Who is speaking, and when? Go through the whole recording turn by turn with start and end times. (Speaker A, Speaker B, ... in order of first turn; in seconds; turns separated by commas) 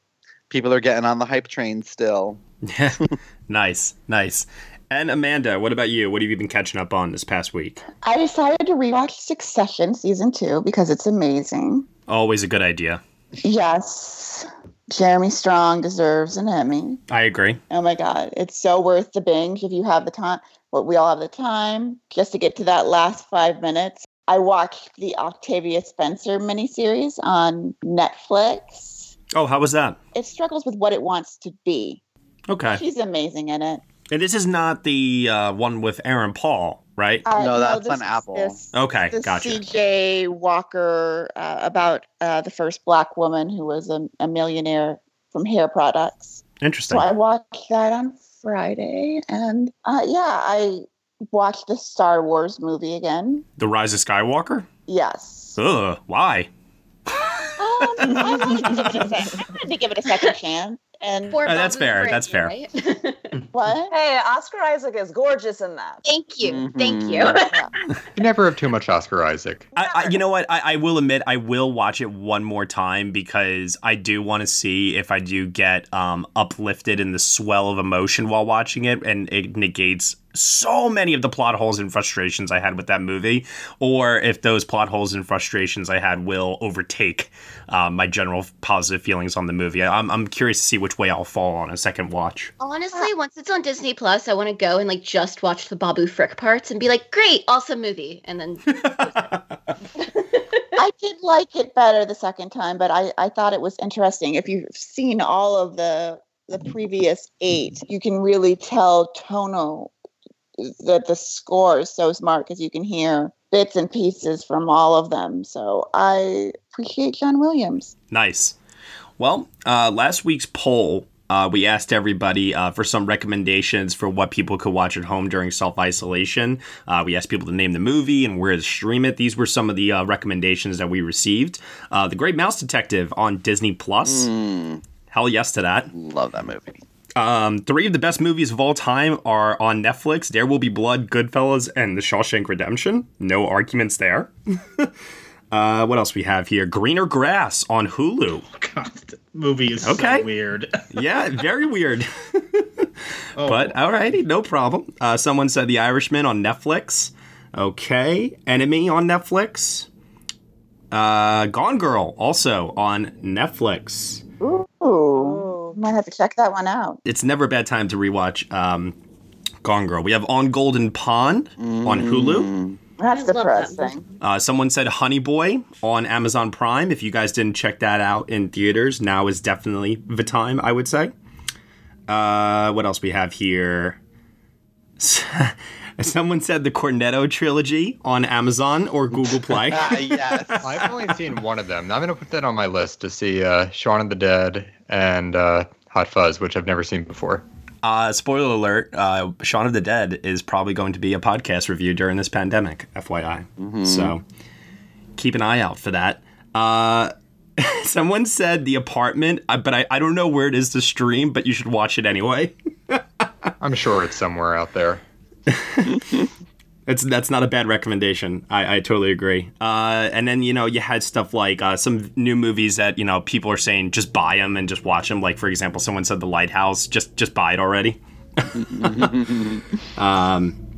Speaker A: 0.5-2.4, Speaker B: 2.7-7.8, Speaker C: 8.0-11.9, Speaker B: 12.1-13.0, Speaker C: 13.4-17.0, Speaker B: 17.1-17.6, Speaker C: 17.7-29.1, Speaker B: 29.3-30.0, Speaker C: 30.1-32.0, Speaker B: 32.5-32.8, Speaker C: 32.7-33.8, Speaker B: 34.1-37.2, Speaker C: 37.2-53.4, Speaker A: 37.4-38.6, Speaker B: 38.7-39.6, Speaker B: 46.6-47.1, Speaker B: 53.6-54.7, Speaker C: 54.9-55.5, Speaker B: 55.6-56.5, Speaker C: 57.6-61.4, Speaker D: 61.3-63.3, Speaker B: 61.5-62.5, Speaker C: 63.5-63.9, Speaker E: 63.9-66.0, Speaker D: 66.0-67.6, Speaker A: 66.4-67.4, Speaker C: 67.4-67.7, Speaker F: 68.2-69.7, Speaker B: 69.7-92.5, Speaker D: 92.6-99.0, Speaker B: 98.7-99.4, Speaker C: 100.8-109.9, Speaker C: 110.6-117.9, Speaker B: 118.1-118.5, Speaker B: 119.2-134.3, Speaker A: 134.0-134.8, Speaker B: 135.1-135.9, Speaker A: 135.9-136.8, Speaker B: 137.2-144.9, Speaker B: 145.5-148.4, Speaker G: 148.6-150.7, Speaker B: 149.8-150.3, Speaker B: 150.9-152.8, Speaker G: 153.4-153.7, Speaker B: 153.4-159.9, Speaker B: 160.9-164.2, Speaker C: 164.4-167.0, Speaker E: 165.1-165.8, Speaker B: 167.1-168.9, Speaker B: 169.6-172.5, Speaker A: 171.6-172.8, Speaker C: 173.0-174.0, Speaker D: 173.1-173.9, Speaker B: 174.2-181.1, Speaker B: 182.1-184.0, Speaker B: 185.0-190.2, Speaker A: 189.3-190.8, Speaker F: 190.6-197.4, Speaker B: 197.8-204.2, Speaker A: 203.6-204.1, Speaker B: 205.2-213.0, Speaker F: 213.6-215.0, Speaker B: 215.5-216.0, Speaker B: 216.9-229.1, Speaker A: 228.5-229.6, Speaker B: 230.0-230.6